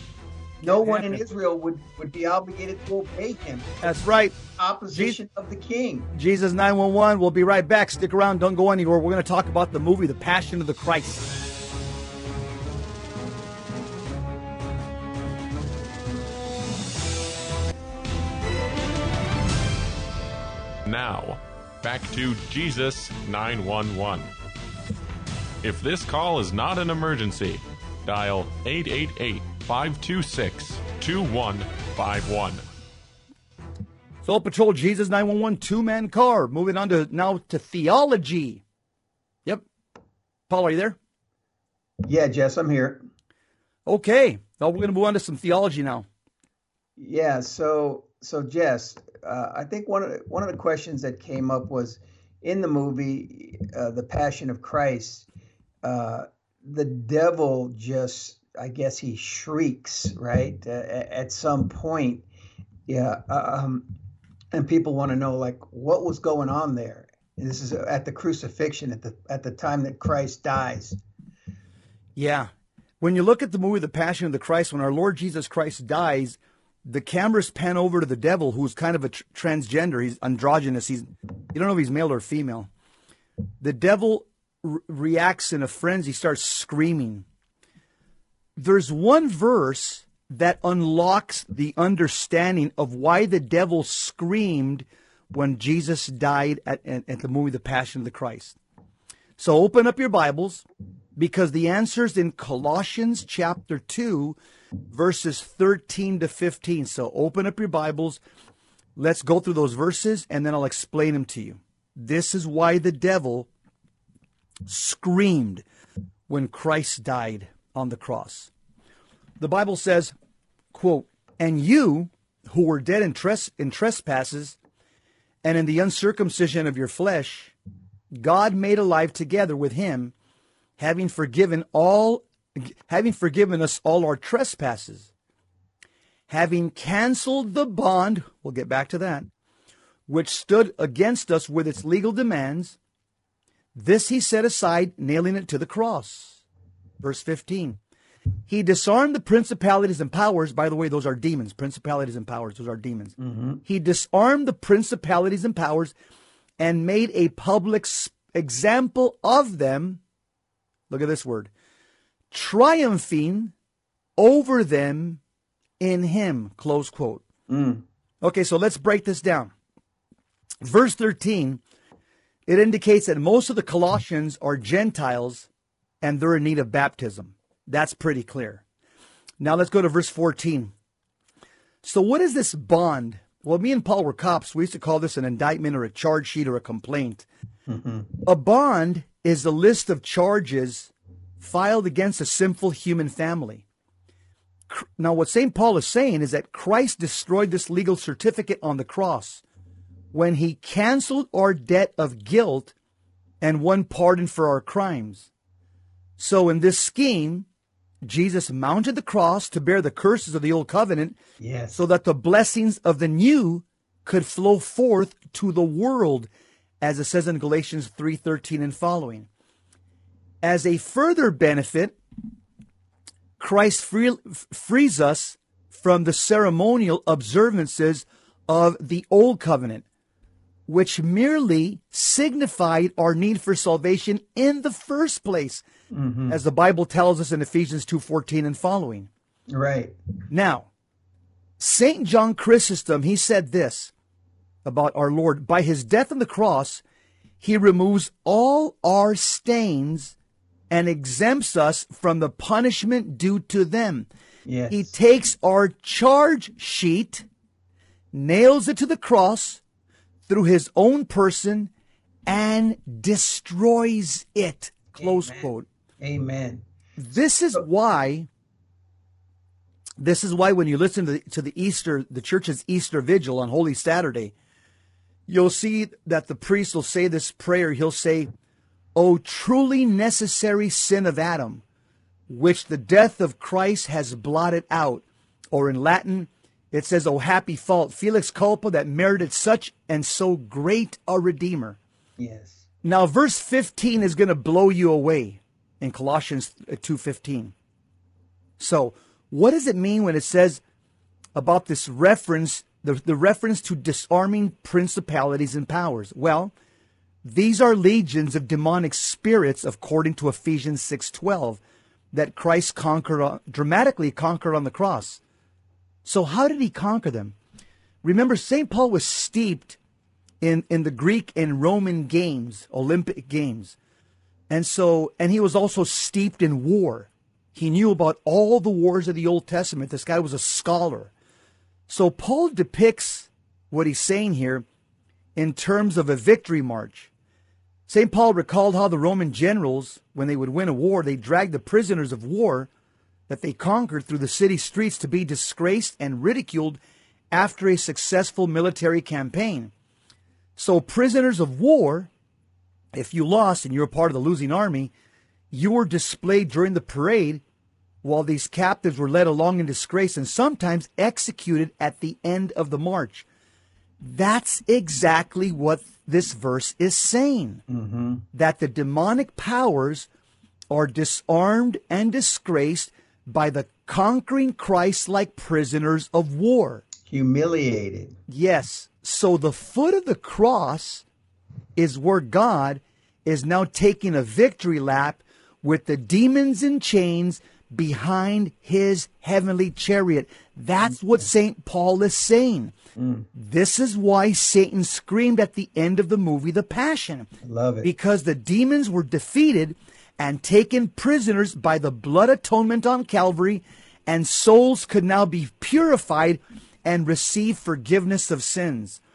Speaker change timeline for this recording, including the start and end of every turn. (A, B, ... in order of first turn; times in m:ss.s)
0:00.6-0:01.2 A
0:00.6-0:06.1 B
0:03.8-0:04.4 A
0:04.9-0:05.2 A
0:06.1-0:11.3 A
0:20.9-0:24.3 C
0:25.6-0:32.6 C
0:34.2-0:38.6 A
0:40.5-0:41.0 A
0:42.1-0:43.0 B
0:43.9-0:46.1 A
0:47.0-0:55.3 B
0:55.8-1:02.2 B
1:02.9-1:03.9 B
1:04.5-1:11.0 B
1:12.2-1:22.7 A
1:23.6-1:27.2 A
1:28.6-1:38.6 A
1:39.4-1:40.6 A
1:41.2-1:44.4 A
1:44.9-1:48.2 A
1:49.0-1:53.5 A
1:54.7-1:55.6 A
1:56.3-1:58.5 A
1:59.4-2:00.1 A
2:00.7-2:04.6 A
2:05.4-2:07.5 A
2:08.1-2:10.1 A
2:10.8-2:15.1 A
2:16.3-2:19.3 A
2:20.1-2:22.8 A
2:23.8-2:26.4 A
2:27.0-2:27.8 A
2:28.5-2:35.9 A
2:33.2-2:33.6 B
2:36.6-2:40.0 A
2:40.9-2:41.5 A
2:42.3-2:43.5 A
2:44.2-2:45.2 A
2:45.8-2:47.2 A
2:47.5-2:47.8 B
2:48.2-2:49.5 A
2:50.6-2:51.6 A
2:52.5-2:55.5 A
2:56.0-2:58.6 A
2:59.4-3:00.7 A
3:01.8-3:07.3 A
3:07.7-3:08.2 B
3:08.3-3:13.6 A
3:14.7-3:19.4 A
3:20.1-3:22.7 A
3:23.4-3:25.3 A
3:26.2-3:27.5 A
3:28.0-3:31.2 A
3:31.4-3:31.8 B
3:31.7-3:36.3 A
3:36.8-3:39.3 A
3:40.4-3:42.0 A
3:43.4-3:49.8 A
3:50.7-3:55.6 A
3:55.9-3:56.4 B
3:56.3-3:59.1 A
3:59.5-4:00.0 B
4:00.3-4:00.7 A
4:01.6-4:03.9 A
4:04.6-4:06.8 A
4:07.4-4:10.2 A
4:10.7-4:14.1 A
4:14.5-4:14.9 B
4:14.7-4:17.3 A
4:18.1-4:19.6 A
4:20.3-4:21.7 A
4:22.3-4:25.7 A
4:25.0-4:25.5 B
4:26.0-4:26.6 B
4:27.0-4:28.3 A
4:30.0-4:34.3 A
4:35.3-4:38.3 A
4:39.0-4:41.6 A
4:42.3-4:51.8 A
4:52.2-4:52.6 B
4:52.8-4:57.5 A
4:58.6-5:00.6 A
5:01.4-5:06.5 A
5:07.2-5:11.6 A
5:12.1-5:15.2 A
5:16.0-5:17.4 A
5:18.0-5:19.8 A
5:20.4-5:23.8 A
5:24.5-5:31.1 A
5:31.9-5:34.6 A
5:35.4-5:37.1 A
5:37.9-5:42.7 A
5:43.3-5:46.8 A
5:47.3-5:49.7 A
5:50.6-5:52.1 A
5:52.9-5:54.9 A
5:55.5-5:57.4 A
5:58.0-6:03.3 A
6:04.0-6:07.6 A
6:07.7-6:08.2 B
6:08.3-6:10.1 A
6:10.7-6:16.8 A
6:17.1-6:18.2 B
6:18.3-6:21.0 A
6:21.8-6:32.7 A
6:33.0-6:33.3 B
6:33.4-6:37.3 A
6:37.4-6:37.9 B
6:37.8-6:49.0 A